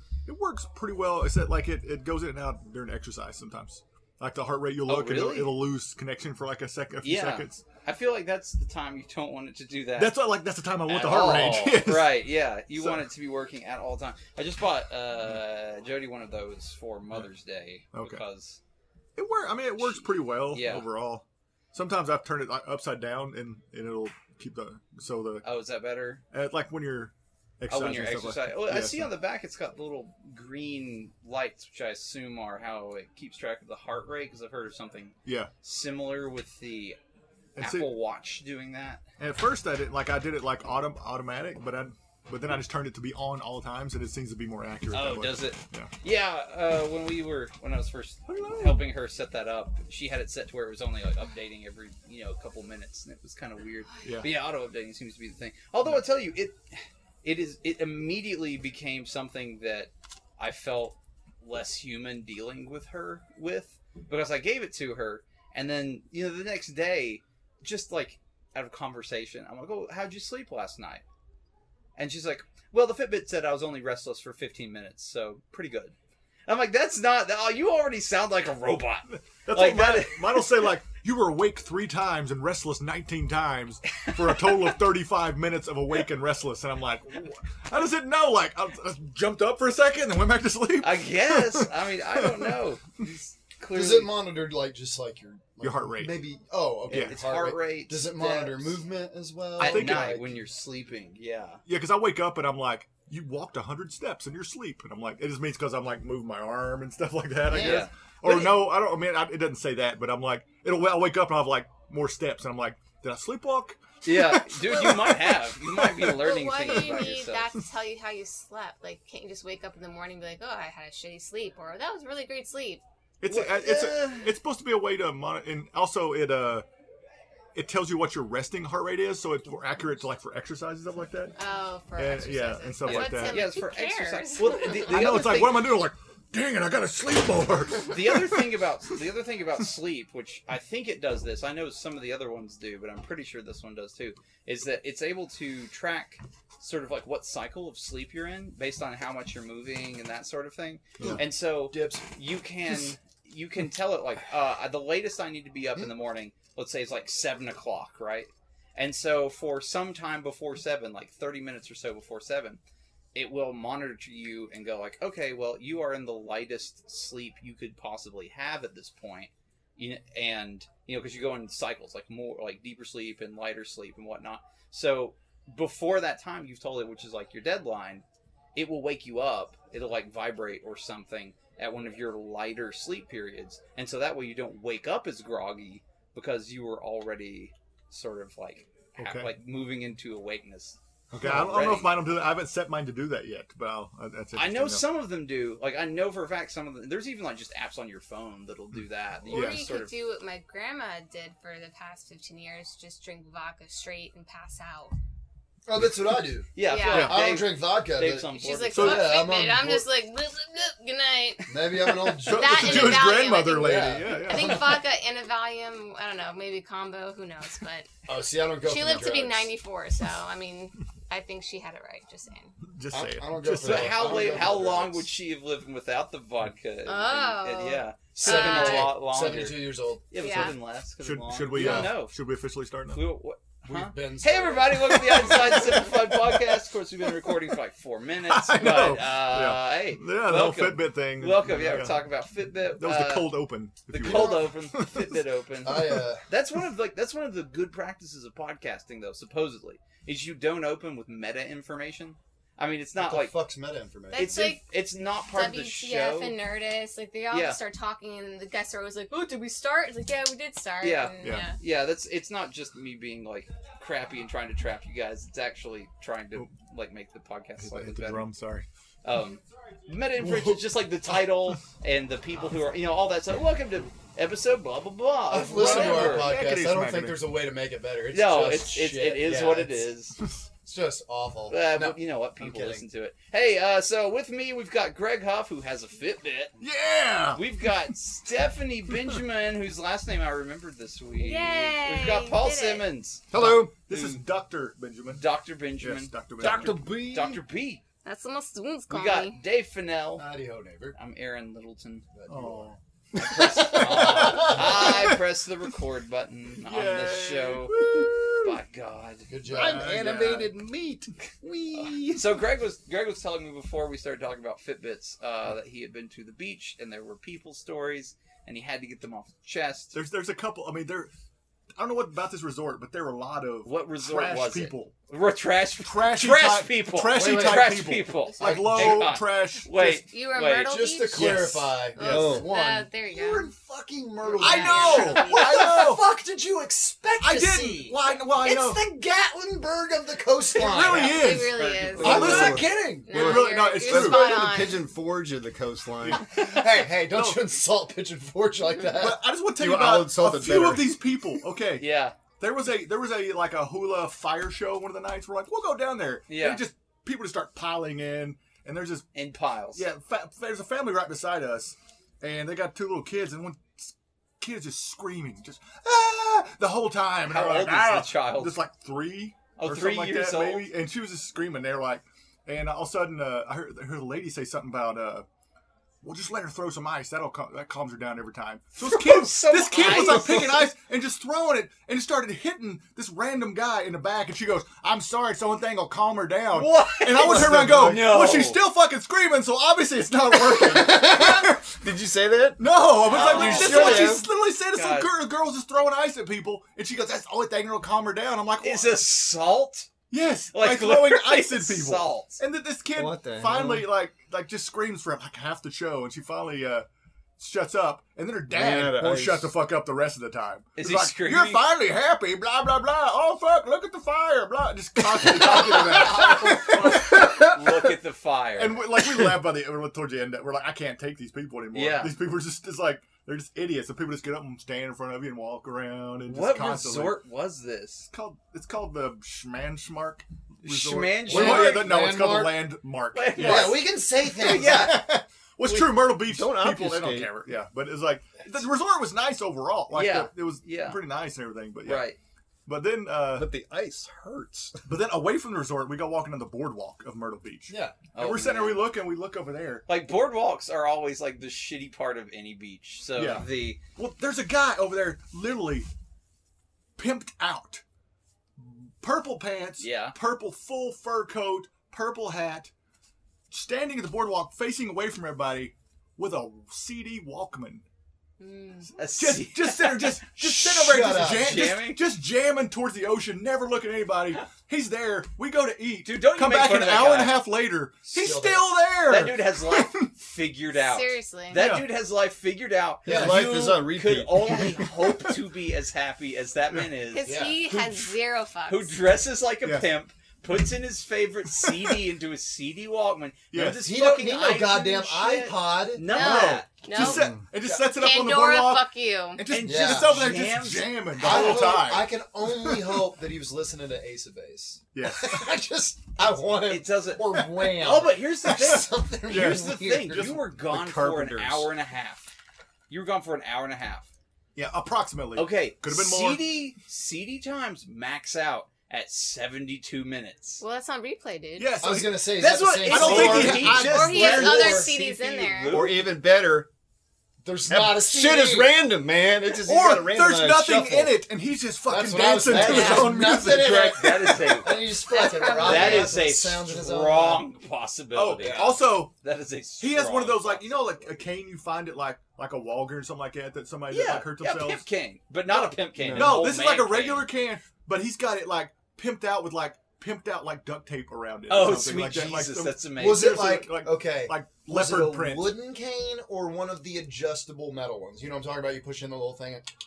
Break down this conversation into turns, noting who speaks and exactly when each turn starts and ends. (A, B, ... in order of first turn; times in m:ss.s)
0:00.3-0:07.6 A
0:04.9-0:05.5 B
0:07.0-0:10.2 B
0:10.0-0:12.2 A
0:10.9-0:18.6 B
0:12.8-0:13.0 A
0:17.9-0:18.2 A
0:19.2-0:25.5 A
0:19.8-0:20.9 B
0:25.4-0:26.2 B
0:26.3-0:29.1 A
0:27.7-0:37.0 B
0:35.2-0:35.5 A
0:37.6-0:37.9 A
0:37.6-0:39.0 B
0:39.2-0:45.9 A
0:44.9-1:11.0 B
0:48.3-0:48.8 A
0:54.0-0:54.3 A
1:12.0-1:16.0 B
1:16.5-1:20.5 B
1:19.1-1:32.6 A
1:24.1-1:24.5 B
1:30.8-1:34.2 B
1:33.7-1:40.2 C
1:35.6-1:36.2 A
1:36.9-1:37.2 A
1:36.9-1:38.8 B
1:39.6-1:41.6 B
1:39.6-1:40.3 A
1:41.7-1:57.2 A
1:47.5-1:47.9 C
1:47.5-1:48.6 B
1:54.0-1:57.5 B
1:56.2-2:02.8 D
2:03.2-2:06.6 A
2:03.3-2:04.3 B
2:07.6-2:11.4 A
2:11.4-2:15.0 D
2:12.0-2:13.5 A
2:12.8-2:15.7 B
2:14.6-2:18.5 A
2:17.9-2:42.6 B
2:31.0-2:32.0 C
2:43.2-3:12.0 B
3:09.0-3:09.3 A
3:11.1-3:14.8 A
3:14.3-3:19.9 B
3:19.3-3:24.9 D
3:19.3-3:19.7 A
3:25.7-3:29.9 C
3:26.6-3:29.0 B
3:26.6-3:27.2 D
3:26.9-3:27.2 A
3:28.3-3:37.9 D
3:28.7-3:29.1 A
3:31.5-3:34.7 C
3:32.2-3:34.8 A
3:38.1-3:39.5 C
3:38.6-3:42.6 D
3:42.6-3:44.2 A
3:42.9-3:45.1 C
3:43.6-3:52.2 B
3:46.9-3:49.0 D
3:48.2-3:50.1 C
3:50.2-3:50.6 D
3:51.0-3:53.0 A
3:51.5-3:51.9 C
3:52.9-4:03.4 B
3:53.7-3:55.3 C
3:54.9-3:56.4 A
3:58.3-4:02.0 A
4:02.8-4:05.2 A
4:03.9-4:13.4 B
4:04.1-4:04.4 D
4:05.6-4:06.2 C
4:05.7-4:06.0 A
4:13.0-4:14.4 C
4:14.1-4:14.6 D
4:14.1-4:16.4 B
4:15.2-4:21.6 D
4:17.3-4:17.6 B
4:20.8-4:28.3 B
4:21.2-4:21.5 A
4:27.6-4:28.7 A
4:29.0-4:36.4 B
4:30.2-4:30.6 A
4:35.3-4:39.9 C
4:35.5-4:37.2 A
4:38.1-4:40.2 B
4:40.6-4:42.8 C
4:41.5-4:46.5 B
4:46.6-4:47.4 A
4:47.4-4:53.2 B
4:51.2-4:52.9 D
4:53.3-4:53.7 E
4:53.3-4:55.3 A
4:55.1-4:57.8 B
4:55.8-4:56.8 A
4:56.4-4:57.4 E
4:58.0-4:59.4 D
4:58.9-5:00.3 B
5:00.2-5:01.0 C
5:01.0-5:02.1 B
5:02.2-5:02.7 C
5:02.3-5:02.8 A
5:03.2-5:07.9 B
5:03.4-5:05.2 A
5:04.0-5:04.6 C
5:06.6-5:08.5 A
5:07.9-5:08.3 E
5:08.4-5:09.3 B
5:09.3-5:10.2 C
5:09.4-5:12.4 E
5:09.5-5:10.5 A
5:11.8-5:20.0 B
5:19.9-5:21.1 A
5:21.8-5:24.9 A
5:23.6-5:30.8 B
5:25.8-5:30.0 A
5:27.1-5:27.7 C
5:28.4-5:29.2 C
5:30.0-5:33.5 D
5:30.7-5:41.3 C
5:31.1-5:31.8 A
5:32.0-5:32.5 E
5:34.2-5:35.8 D
5:34.4-5:36.0 A
5:37.2-5:38.8 A
5:40.6-5:44.4 A
5:40.8-5:44.8 D
5:41.6-5:42.5 B
5:42.0-5:46.2 E
5:42.0-5:43.3 C
5:46.0-5:47.4 A
5:46.3-5:49.2 C
5:48.8-5:59.1 A
5:49.6-5:51.0 E
5:51.8-5:52.2 B
5:56.3-5:56.6 B
5:59.1-5:59.8 B
5:59.8-6:15.3 A
6:07.3-6:08.6 B
6:09.6-6:10.7 B
6:16.0-6:31.8 A
6:18.8-6:20.7 B
6:26.5-6:28.6 B
6:27.2-6:28.1 E
6:30.4-6:34.3 E
6:32.6-6:39.0 A
6:33.0-6:35.1 B
6:38.6-6:39.9 B
6:40.1-6:46.9 A
6:40.5-6:42.4 B
6:43.0-6:43.9 E
6:47.4-6:57.5 A
6:48.5-6:49.5 E
6:50.8-6:51.6 B
6:55.4-6:56.1 E
6:56.8-6:57.5 E
6:57.2-6:58.8 B
6:58.6-7:07.2 A
7:01.7-7:02.1 B
7:06.3-7:08.1 B
7:08.1-7:22.1 A
7:10.6-7:11.9 B
7:11.3-7:12.6 C
7:13.1-7:15.1 B
7:13.4-7:15.1 C
7:15.6-7:15.9 B
7:16.2-7:17.3 E
7:19.9-7:21.0 B
7:21.8-7:22.2 B
7:22.7-7:23.5 A
7:23.3-7:24.8 E
7:24.8-7:29.8 A
7:27.7-7:28.0 C
7:28.1-7:28.9 B
7:29.9-7:33.8 B
7:33.2-7:35.9 A
7:37.0-7:37.8 A
7:38.6-7:42.7 A
7:39.8-7:40.2 B
7:43.5-7:47.8 A
7:48.4-7:49.0 D
7:49.0-7:50.3 B
7:49.1-8:00.1 A
7:50.4-7:51.6 C
7:51.4-7:52.0 B
7:56.0-7:57.4 B
7:58.1-7:58.7 C
7:59.1-8:08.2 B
8:00.8-8:01.6 D
8:01.5-8:01.9 A
8:03.1-8:05.0 E
8:03.1-8:03.5 C
8:07.1-8:09.0 D
8:07.2-8:07.6 C
8:08.7-8:16.8 B
8:11.6-8:12.0 A
8:13.5-8:13.8 A
8:13.8-8:16.1 C
8:16.1-8:19.4 D
8:16.1-8:23.0 A
8:17.0-8:17.4 E
8:19.5-8:21.7 B
8:19.6-8:20.1 C
8:21.2-8:30.4 C
8:24.9-8:25.5 A
8:26.6-8:32.3 B
8:29.3-8:29.7 A
8:30.6-8:31.7 E
8:32.9-8:34.1 B
8:34.6-8:36.4 A
8:35.4-8:40.6 B
8:40.6-8:41.8 D
8:41.6-8:42.3 A
8:41.8-8:45.0 C
8:42.4-8:46.1 B
8:42.9-8:44.8 A
8:43.3-8:45.8 D
8:45.7-8:46.7 E
8:47.4-8:48.8 C
8:47.7-8:51.2 E
8:49.5-8:54.3 A
8:51.9-8:57.4 C
8:52.6-8:53.1 D
8:53.3-9:01.1 B
8:55.1-8:56.2 D
8:58.1-8:59.1 A
8:58.4-8:58.8 C
8:59.8-9:04.8 A
9:03.9-9:07.3 B
9:06.0-9:06.5 E
9:06.1-9:15.6 A
9:11.5-9:13.4 B
9:13.0-9:19.7 C